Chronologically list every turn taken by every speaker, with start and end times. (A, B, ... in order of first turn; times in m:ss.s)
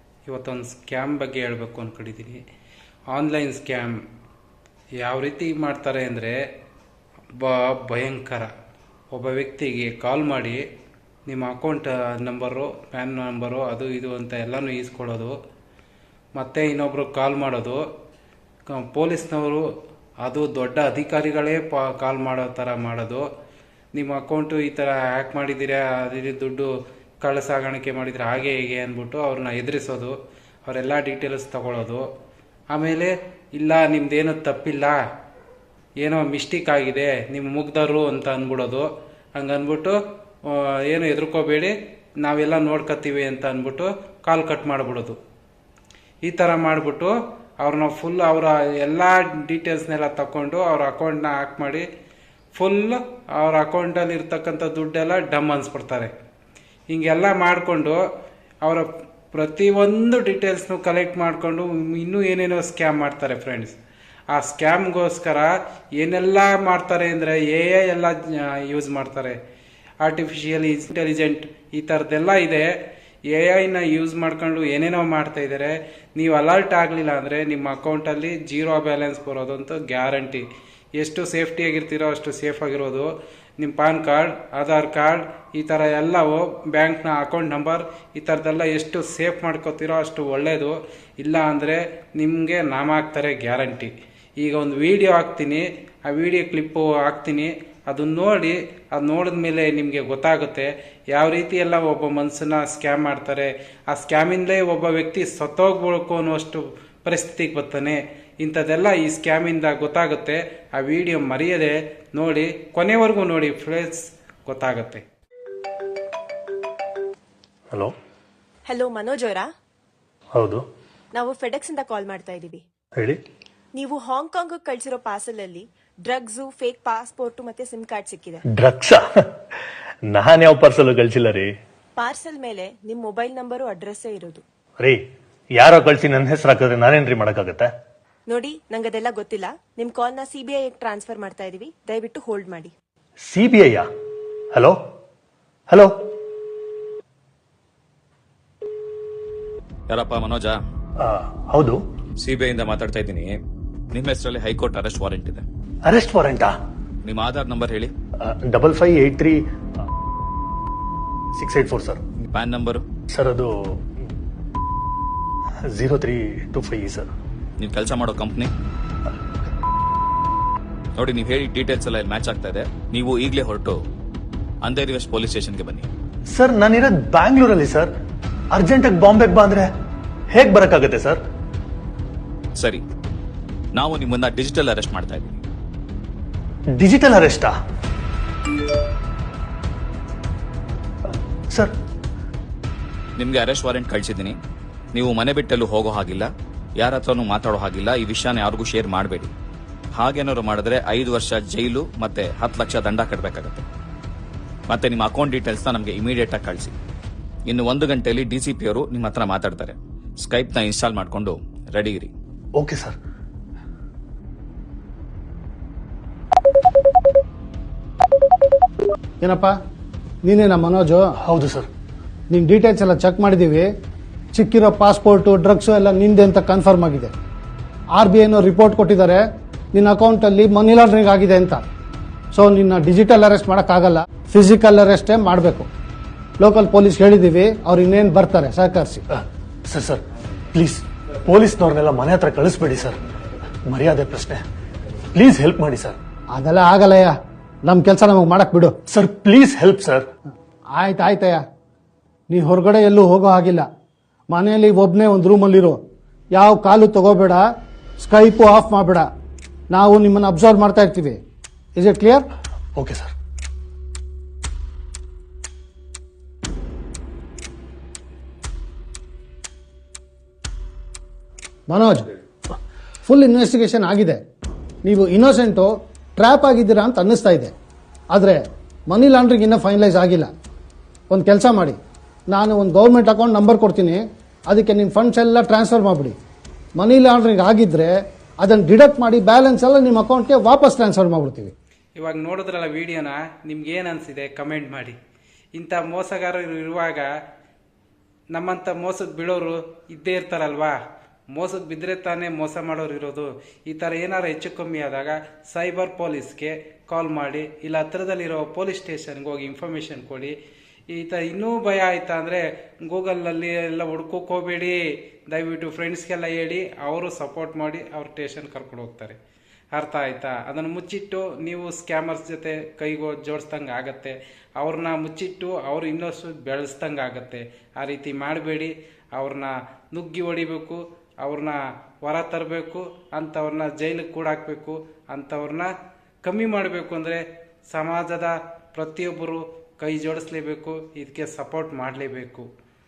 0:00.3-0:02.4 A
0:03.1-0:04.0 A
0:05.0-0:06.4 A
0:07.4-0:08.5 A
0:09.1-0:10.6 A
0:11.3-0:15.3 A
0:16.4-0:17.8 A
0:18.7-0:19.7 A
0:20.2-0:23.3 A
0:23.9-0:26.7 A
0:27.2-0:30.1 A
0:30.6-0:32.0 A
0:32.7-0:35.0 A
0:36.0-0:45.2 A
0:46.2-0:51.9 A
0:52.6-0:56.1 A
0:56.9-0:58.0 A
0:58.6-1:03.7 A
1:04.3-1:09.4 A
1:10.0-1:12.7 A
1:13.3-1:20.4 A
1:21.0-1:55.0 A
1:58.7-1:59.5 B
2:00.3-2:00.6 C
2:01.1-2:02.6 B
2:03.7-2:08.4 B
2:08.6-2:09.0 C
2:10.1-2:11.5 C
2:12.0-2:14.4 B
2:15.6-2:17.7 C
2:18.3-2:22.7 B
2:23.3-2:23.9 C
2:29.9-2:30.6 D
2:31.0-2:31.8 C
2:32.2-2:33.4 D
2:33.9-2:35.4 D
2:35.8-2:36.5 C
2:37.0-2:37.9 D
2:38.2-2:39.4 C
2:41.3-2:42.0 C
2:42.3-2:42.8 D
2:43.1-2:43.5 C
2:45.7-2:47.1 C
2:47.6-2:48.5 D
2:50.9-2:53.8 D
2:54.6-2:55.9 D
2:56.3-2:57.9 C
2:58.5-2:59.7 C
3:00.3-3:01.2 C
3:02.6-3:02.8 D
3:03.7-3:05.4 D
3:06.7-3:07.5 C
3:13.2-3:14.4 D
3:14.9-3:19.3 D
3:19.9-3:23.6 D
3:24.7-3:26.8 D
3:27.5-3:32.1 D
3:32.6-3:33.0 C
3:39.2-3:39.5 E
3:40.2-3:41.1 E
3:41.2-3:41.7 C
3:42.3-3:43.7 E
3:44.3-3:47.1 E
3:47.9-3:51.6 E
3:52.3-3:55.7 E
3:56.4-3:59.0 E
3:59.1-4:00.0 C
4:00.5-4:03.0 C
4:03.7-4:04.4 C
4:05.2-4:06.0 C
4:06.3-4:08.8 E
4:08.9-4:10.1 C
4:10.8-4:11.4 E
4:12.3-4:13.7 E
4:14.3-4:15.8 E
4:16.3-4:17.5 E
4:18.0-4:19.1 E
4:19.7-4:21.2 E
4:21.8-4:22.3 E
4:22.8-4:23.1 C
4:31.7-4:32.1 E
4:33.1-4:34.2 E
4:34.8-4:37.5 E
4:38.1-4:40.3 E
4:41.1-4:41.8 E
4:42.3-4:46.2 E
4:46.8-4:51.5 E
4:52.0-4:55.0 A
4:55.5-4:57.1 A
4:58.3-5:00.8 A
5:01.3-5:10.4 A
5:10.9-5:19.2 A
5:19.7-5:35.7 A
5:36.2-5:42.5 A